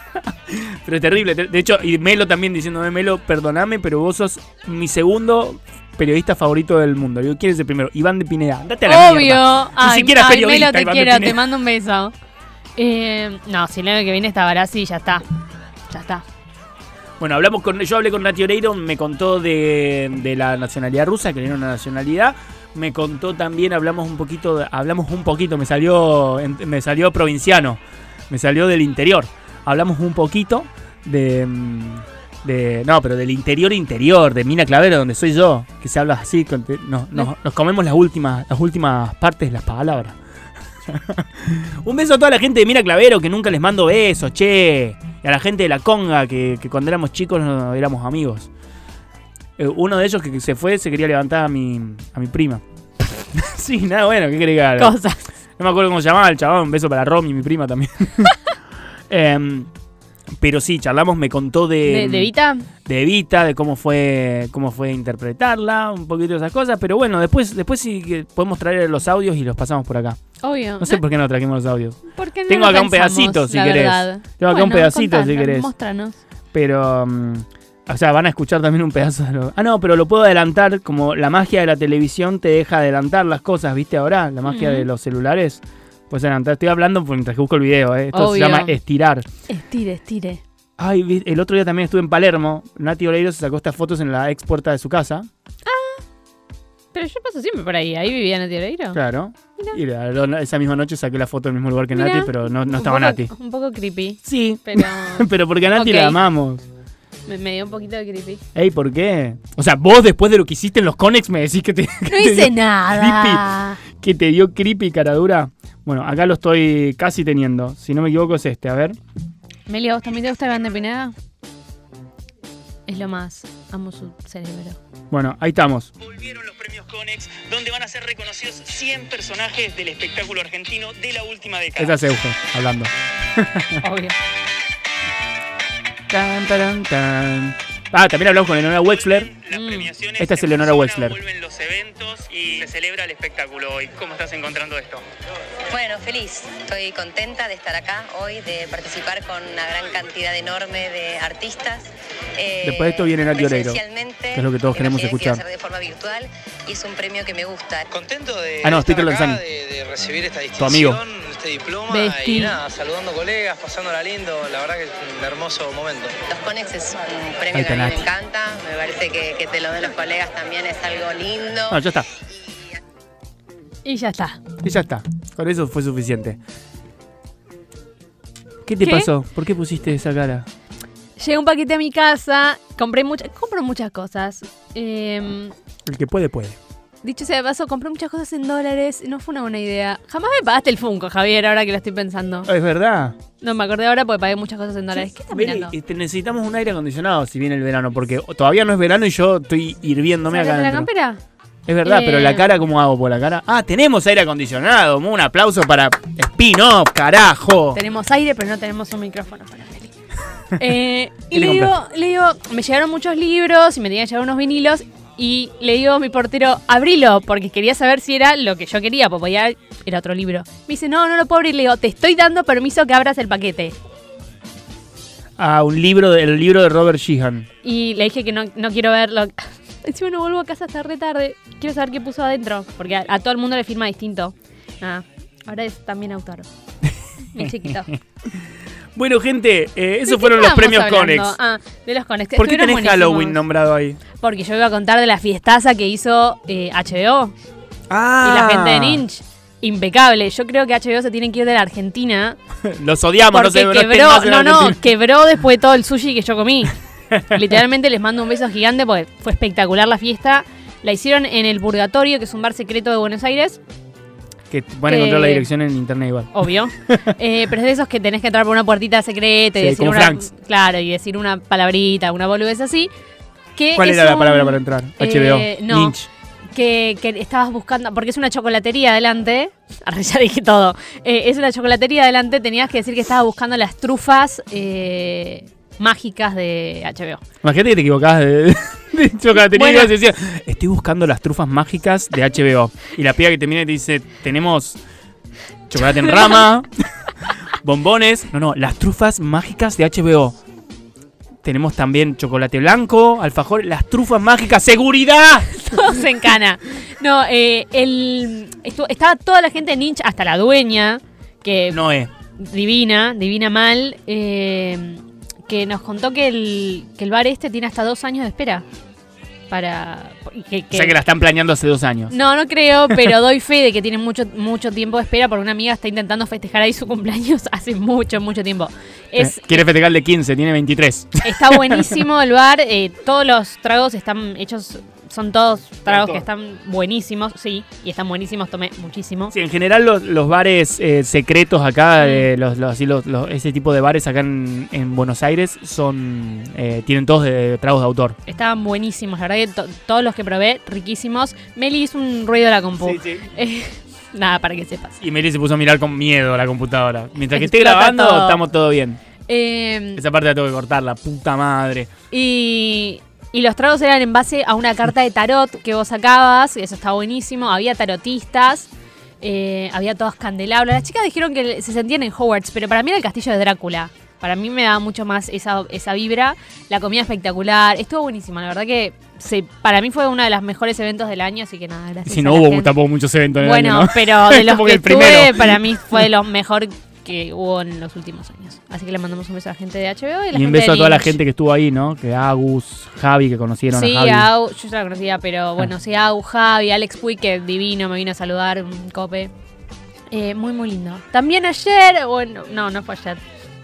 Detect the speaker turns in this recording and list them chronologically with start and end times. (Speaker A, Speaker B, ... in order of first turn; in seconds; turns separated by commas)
Speaker A: 0.2-11.4, Speaker B: 8.8-12.1, Speaker B: 12.8-15.2, Speaker B: 15.9-16.2, Speaker A: 17.2-40.2, Speaker A: 40.9-48.5, Speaker A: 49.6-55.0, Speaker B: 54.8-55.2, Speaker A: 55.6-58.3, Speaker A: 59.1-59.7, Speaker A: 60.4-62.3, Speaker B: 61.8-62.7, Speaker A: 62.8-70.2, Speaker B: 70.4-71.0, Speaker A: 70.8-75.7, Speaker B: 72.1-76.2, Speaker A: 76.5-89.2, Speaker B: 84.5-84.9, Speaker B: 88.1-88.8, Speaker B: 89.5-90.4, Speaker A: 90.8-95.3, Speaker B: 95.7-96.0, Speaker B: 96.9-99.0, Speaker A: 98.9-103.3, Speaker B: 101.9-106.2, Speaker A: 104.2-106.6, Speaker B: 107.3-108.4, Speaker A: 108.5-119.0, Speaker B: 112.1-113.8, Speaker B: 119.7-121.1, Speaker B: 122.9-124.8, Speaker A: 125.1-125.9, Speaker C: 126.0-132.0, Speaker A: 131.8-133.8, Speaker B: 133.8-134.1, Speaker A: 136.1-139.3, Speaker C: 138.8-145.0, Speaker B: 139.5-139.9, Speaker A: 140.2-141.2, Speaker D: 145.7-157.9, Speaker A: 152.6-153.8, Speaker A: 154.3-155.4, Speaker E: 158.0-158.7, Speaker A: 158.6-159.5, Speaker E: 159.2-166.2, Speaker A: 160.6-161.0, Speaker B: 161.9-162.6, Speaker D: 166.2-171.8, Speaker A: 167.5-168.1, Speaker A: 171.7-172.1, Speaker B: 173.8-174.4, Speaker A: 174.6-176.4, Speaker A: 178.6-180.5, Speaker B: 178.8-179.1, Speaker B: 181.2-185.5, Speaker A: 185.8-186.6, Speaker B: 187.0-192.5, Speaker A: 192.5-193.2, Speaker B: 193.4-195.7, Speaker A: 194.9-200.9, Speaker B: 200.3-201.2, Speaker A: 201.7-207.8, Speaker B: 201.8-202.5, Speaker B: 207.7-209.9, Speaker B: 210.6-223.8, Speaker A: 211.3-211.7, Speaker A: 225.4-227.5, Speaker B: 227.6-236.5, Speaker B: 237.3-237.9, Speaker A: 237.3-237.7, Speaker A: 238.9-241.4, Speaker B: 240.0-243.4, Speaker A: 242.3-244.0, Speaker B: 244.2-247.3, Speaker A: 247.9-249.0, Speaker B: 248.2-252.4, Speaker A: 252.6-254.8, Speaker B: 253.3-263.6, Speaker A: 264.5-267.1, Speaker B: 264.9-265.5, Speaker B: 266.3-272.9, Speaker A: 269.6-270.3, Speaker B: 273.6-275.9, Speaker A: 273.7-276.1, Speaker B: 276.5-287.2, Speaker A: 287.4-294.8, Speaker B: 289.5-289.9, Speaker A: 295.7-296.7, Speaker B: 296.0-296.4, Speaker A: 297.5-300.4, Speaker A: 301.4-305.5, Speaker B: 305.5-311.8, Speaker A: 311.7-312.1, Speaker B: 312.4-318.6, Speaker B: 319.5-320.9, Speaker A: 320.7-322.1, Speaker B: 322.1-329.6, Speaker A: 329.2-331.9, Speaker B: 331.2-339.3, Speaker A: 335.9-336.2, Speaker A: 339.3-348.2, Speaker B: 348.2-355.0, Speaker A: 352.8-353.2, Speaker A: 355.0-359.0, Speaker B: 357.3-358.4, Speaker B: 359.3-360.0, Speaker A: 359.9-361.9, Speaker B: 362.1-368.7, Speaker B: 369.2-382.7, Speaker A: 382.1-386.0, Speaker B: 383.4-391.1, Speaker A: 390.3-394.3, Speaker B: 393.7-399.3, Speaker B: 400.1-403.2